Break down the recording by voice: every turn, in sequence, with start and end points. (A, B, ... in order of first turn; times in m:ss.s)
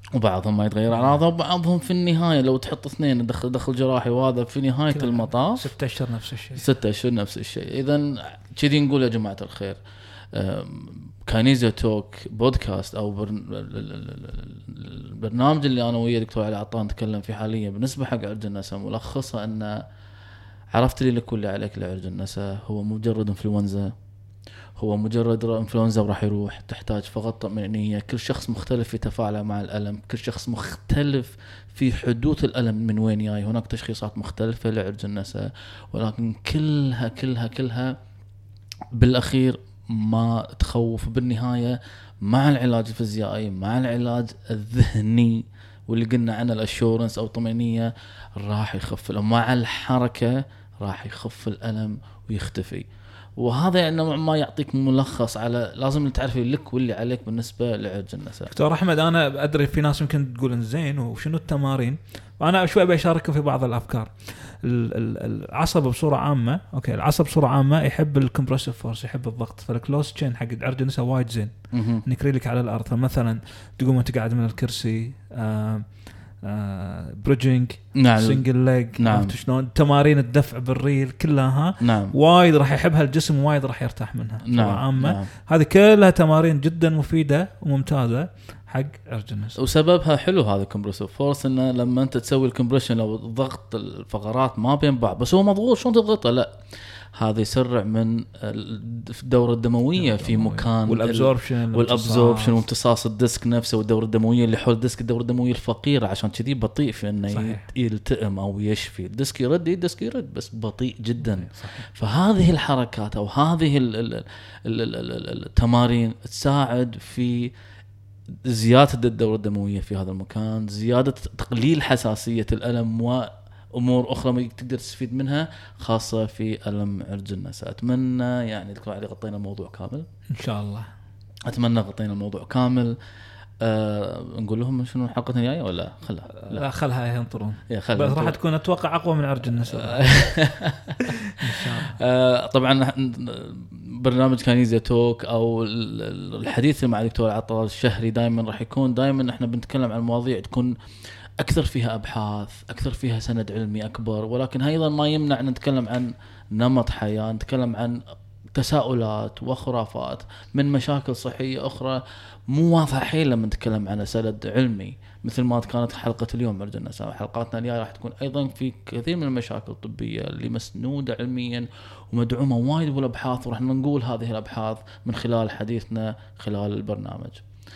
0:00.1-0:05.7 A
0:00.9-0:01.2 B
0:04.9-0:06.6 B
0:06.5-0:09.8 A
0:10.3-0:19.8 A
0:20.7-0:23.9 A
0:24.8-0:37.9 A
0:38.9-0:58.5 A
0:58.5-1:15.9 B
1:11.7-1:12.0 A
1:16.4-1:29.6 B
1:18.0-1:18.4 A
1:19.0-1:19.3 A
1:21.8-1:22.1 A
1:24.4-1:25.3 A
1:29.6-1:36.6 A
1:37.1-1:57.5 A
1:40.0-1:42.6 B
1:47.3-1:47.7 B
1:51.4-1:51.8 B
1:58.4-2:10.0 A
2:10.3-2:10.9 B
2:11.5-2:12.9 A
2:13.6-2:16.7 A
2:16.3-2:20.1 B
2:17.7-2:18.4 A
2:19.6-2:30.7 A
2:21.0-2:22.0 B
2:31.4-2:38.0 A
2:38.5-2:57.4 A